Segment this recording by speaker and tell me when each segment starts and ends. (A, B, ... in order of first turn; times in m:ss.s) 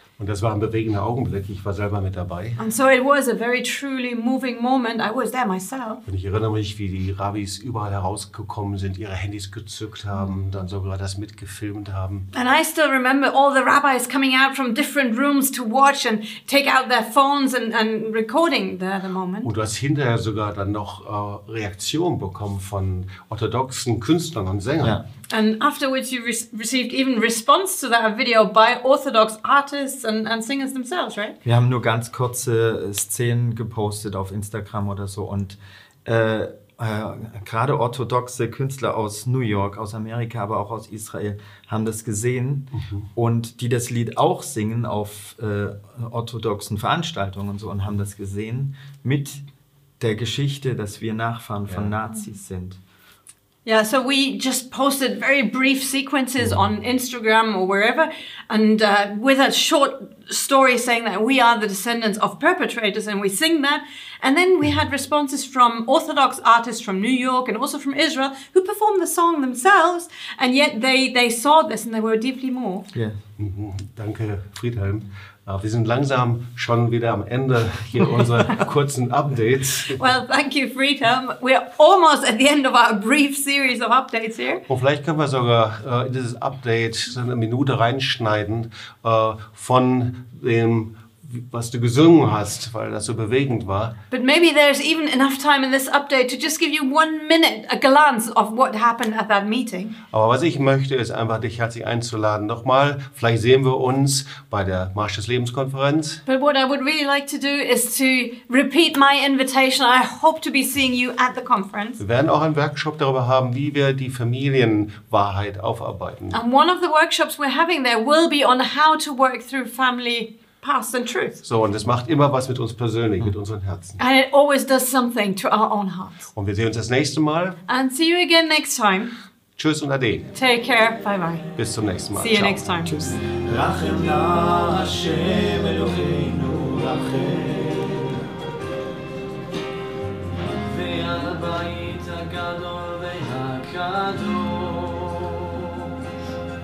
0:00.2-0:02.6 A
0:02.6-0:06.0 B
0:06.1-0:12.2 A
0:12.3-0:19.5 B
0:19.4-0:25.0 A
0:25.3-0:31.4 B
0:31.4-0:49.4 C
0:50.0-0:52.8 C
0:51.7-0:52.0 A
0:53.6-1:12.9 B
1:12.9-1:13.2 C
1:13.4-1:20.0 A
1:19.9-1:24.6 B
1:24.7-1:33.9 A
1:34.1-1:40.0 B
1:40.1-1:46.2 A
1:46.2-1:52.0 B
1:52.0-1:56.4 A
1:56.3-2:01.4 B
2:01.4-2:04.0 A
2:04.0-2:06.2 B
2:06.3-2:07.6 A
2:07.7-2:09.1 B
2:09.6-2:10.3 A
2:10.3-2:11.4 B
2:11.5-2:12.9 A
2:12.1-2:13.2 B
2:13.2-2:18.2 C
2:20.6-2:25.8 C